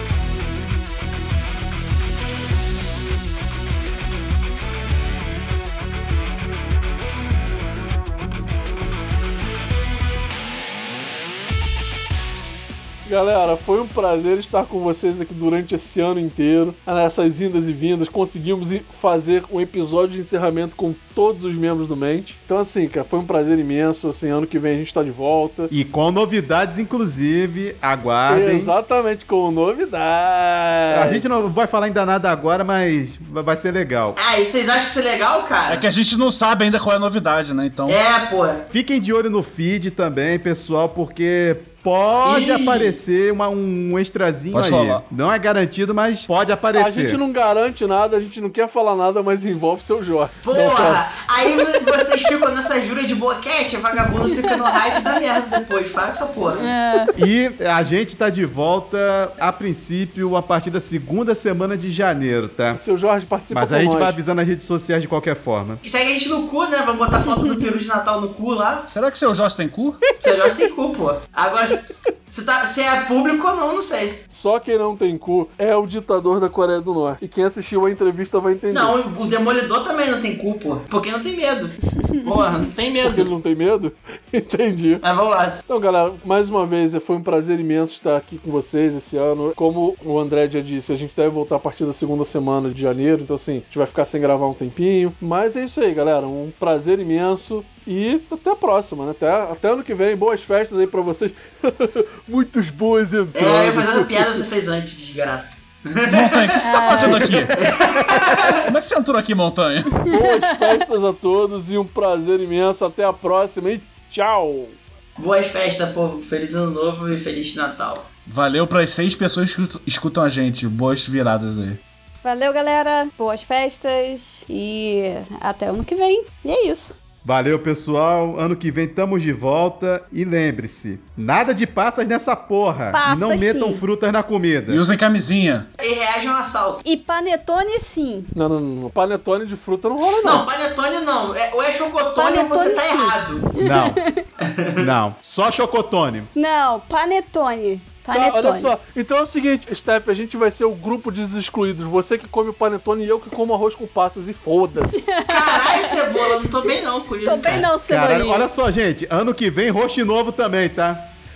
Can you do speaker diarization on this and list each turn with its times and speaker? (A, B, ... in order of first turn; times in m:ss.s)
0:13.0-0:25.7 A
0:25.7-0:28.8 B
0:28.3-0:31.3 A
0:30.9-0:34.2 B
0:34.2-0:35.8 C
0:35.7-0:38.0 D
0:37.9-0:38.6 C
0:38.7-0:47.2 B
0:42.2-0:43.0 C
0:44.5-0:45.0 D
0:46.7-0:51.0 A
0:50.4-0:56.7 C
0:56.5-0:57.2 E
0:57.1-1:02.8 B
1:02.7-1:04.2 A
1:03.5-1:05.8 B
1:05.8-1:08.9 C
1:08.9-1:10.0 D
1:10.2-1:14.2 C
1:14.3-1:19.0 A
1:18.7-1:23.3 C
1:23.0-1:25.0 A
1:25.0-1:25.6 C
1:25.7-1:44.5 A
1:43.3-1:46.6 C
1:46.1-1:47.5 D
1:46.6-1:47.5 E
1:47.1-1:48.6 B
1:47.6-1:48.6 C
1:48.5-1:50.1 D
1:50.0-1:54.8 A
1:55.2-1:58.1 C
1:58.3-2:01.8 D
2:02.2-2:07.0 E
2:07.2-2:14.8 B
2:12.9-2:13.8 E
2:14.7-2:15.7 D
2:15.8-2:16.8 C
2:16.8-2:18.3 E
2:18.3-2:20.5 A
2:20.2-2:23.5 C
2:22.2-2:24.2 E
2:23.6-2:24.0 B
2:24.4-2:24.9 C
2:24.8-2:26.3 B
2:26.4-2:28.7 E
2:28.1-2:35.1 A
2:35.0-2:36.4 E
2:35.2-2:37.7 C
2:37.2-2:38.5 E
2:37.8-2:41.1 B